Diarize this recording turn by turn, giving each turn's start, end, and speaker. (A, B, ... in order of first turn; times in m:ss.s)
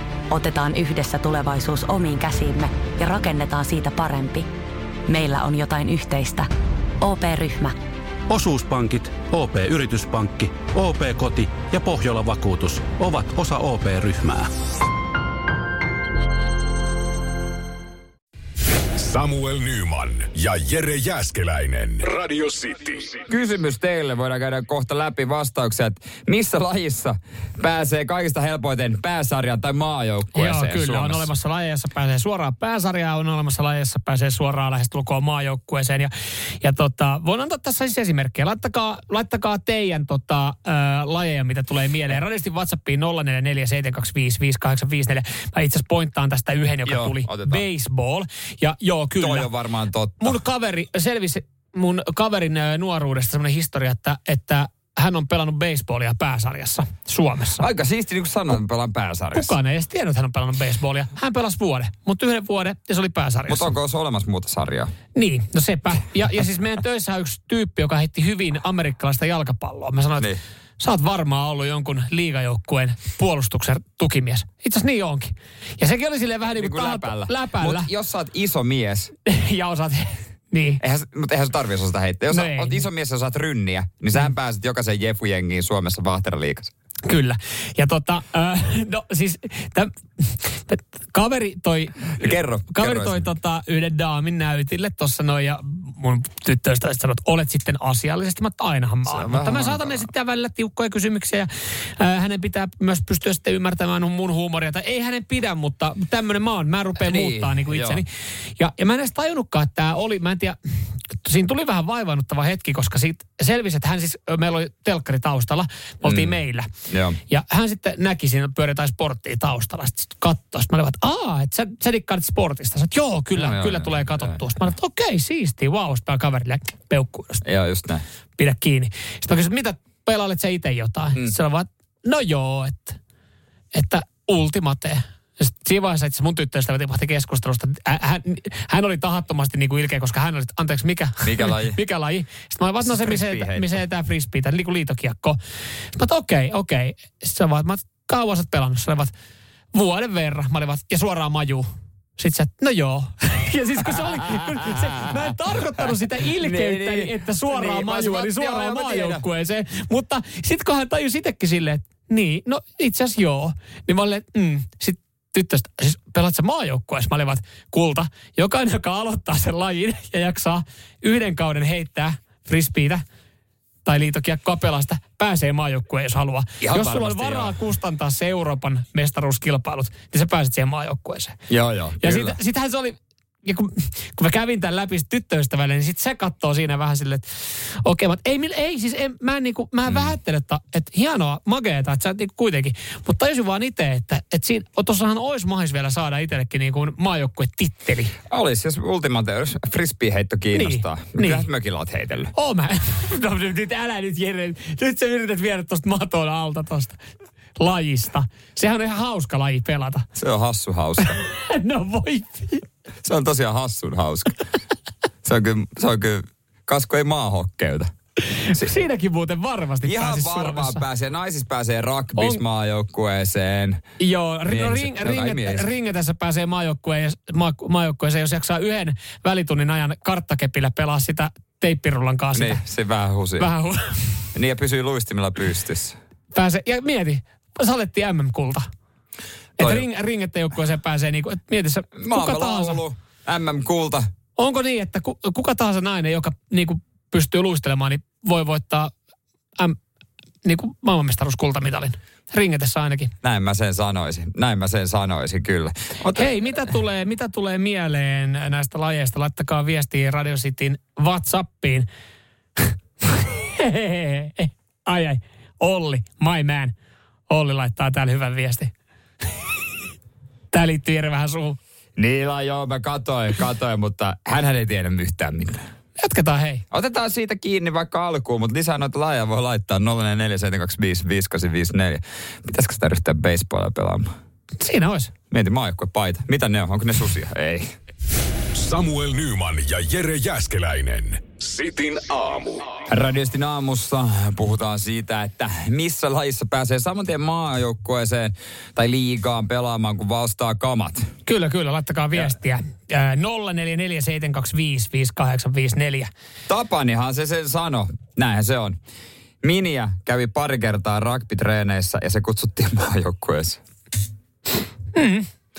0:00.3-0:04.5 A
0:05.1-0:06.5 A
0:07.0-0:07.8 A
0:08.3-0:14.5 B
0:19.0-0:23.2 C
0:23.3-0:31.3 D
0:30.3-0:49.5 E
0:46.8-0:47.6 D
0:49.2-0:50.4 D
0:50.2-0:57.6 E
0:57.6-0:59.5 D
0:59.3-1:03.7 E
1:03.5-1:04.9 D
1:05.1-1:17.9 E
1:16.6-1:19.1 D
1:19.2-1:20.8 E
1:20.8-1:26.7 D
1:22.3-1:22.8 E
1:27.0-1:50.6 E
1:32.2-1:33.3 D
1:39.0-1:40.1 D
1:47.0-1:48.0 D
1:51.2-1:56.7 E
1:56.0-1:56.4 D
1:56.9-1:57.2 D
1:57.3-2:07.4 E
2:03.4-2:04.4 D
2:07.4-2:08.0 D
2:08.4-2:13.0 E
2:13.7-2:25.4 E
2:21.2-2:21.8 D
2:22.8-2:23.7 D
2:25.9-2:29.1 E
2:29.7-2:31.6 E
2:32.2-2:53.0 E
2:36.4-2:39.2 D
2:53.8-3:01.4 E
2:56.6-2:57.5 D
3:01.5-3:02.4 D
3:02.0-3:07.3 E
3:07.8-3:18.1 E
3:18.3-3:22.3 D
3:20.5-3:21.5 E
3:22.3-3:27.0 E
3:27.6-3:30.1 E
3:30.2-3:31.2 D
3:31.0-3:32.6 E
3:33.0-3:34.4 D
3:35.2-3:37.9 D
3:38.3-3:40.8 E
3:39.8-3:43.8 D
3:42.2-3:42.4 E
3:44.0-3:52.6 E
3:44.5-3:45.6 D
3:52.3-3:53.5 D
3:53.4-3:54.1 E
3:54.3-3:56.0 D
3:56.3-3:58.6 E
3:59.6-4:02.8 E
3:59.6-3:59.8 D
4:02.0-4:04.1 D
4:04.4-4:08.9 E
4:10.4-4:13.1 E
4:13.2-4:16.6 D
4:16.1-4:21.9 E
4:22.6-4:26.7 E
4:27.3-4:28.7 E
4:30.5-4:31.6 E
4:32.0-4:35.6 D
4:36.0-4:36.6 E
4:36.7-4:44.1 D
4:44.6-4:45.1 E
4:45.3-4:47.7 D
4:48.5-4:52.7 C
4:52.9-5:01.0 D
5:01.2-5:06.1 E
5:06.5-5:08.8 D
5:09.4-5:13.6 D
5:14.9-5:15.3 E